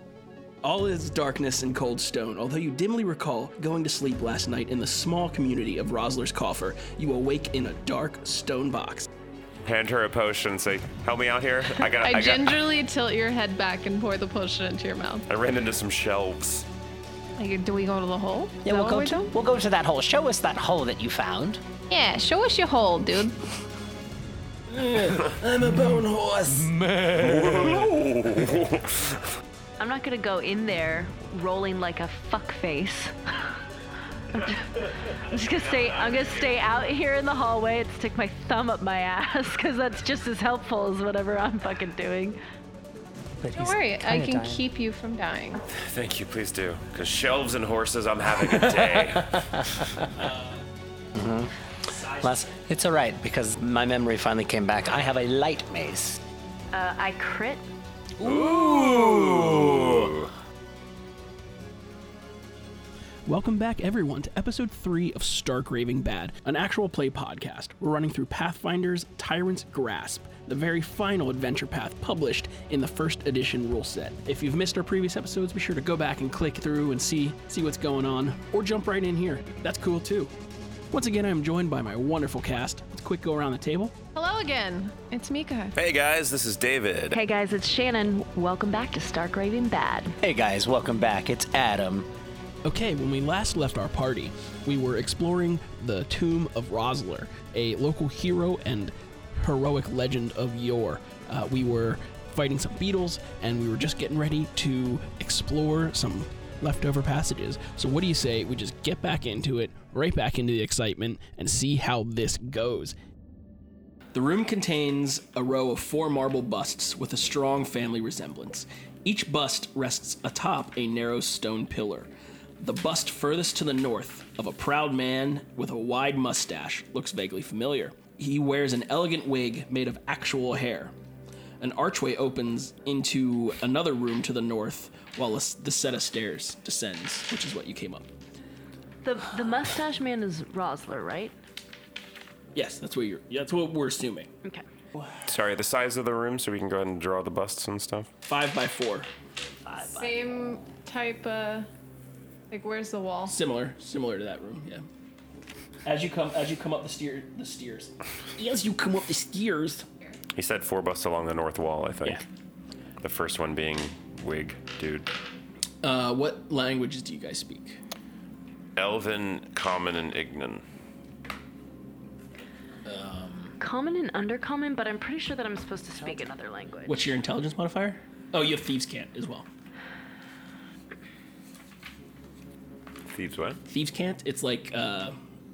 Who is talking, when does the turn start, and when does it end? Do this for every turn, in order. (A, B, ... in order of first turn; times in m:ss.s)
0:00.6-0:09.1 A
0:09.6-0:12.7 B
0:11.9-0:15.3 C
0:15.3-0:16.7 B
0:17.4-0:19.3 C
0:18.6-0:21.6 D
0:21.9-0:23.4 C
0:24.7-0:28.2 A
0:27.0-0:29.2 B
0:29.8-0:33.4 E
0:34.3-0:42.4 E
0:43.4-0:44.6 D
0:43.5-0:45.6 C
0:45.7-0:49.4 B
0:48.5-0:50.1 D
0:50.1-0:50.6 A
0:51.1-0:51.5 D
0:51.8-0:52.6 A
0:52.2-0:56.2 D
0:56.7-0:57.6 E
0:58.2-1:00.1 D
0:58.2-1:00.3 B
1:03.3-1:20.3 A
1:20.9-1:23.9 A
1:24.1-1:25.8 C
1:25.8-1:27.2 B
1:27.1-1:30.2 E
1:30.2-1:32.1 D
1:32.6-1:53.0 A
1:54.1-2:02.1 A
2:02.6-2:10.9 A
2:11.6-2:18.1 A
2:19.0-2:21.3 E
2:22.6-2:24.3 A
2:25.3-2:28.1 B
2:28.3-2:29.1 A
2:29.6-2:30.3 D
2:29.8-2:31.7 C
2:32.5-2:33.4 C
2:33.3-2:34.9 A
2:35.8-2:39.9 A
2:40.3-2:42.2 B
2:43.0-2:45.1 B
2:45.8-2:47.8 A
2:48.8-2:50.6 B
2:52.8-2:53.6 D
2:53.6-2:57.1 E
2:56.9-2:59.5 A
3:03.1-3:03.6 B
3:03.7-3:05.2 A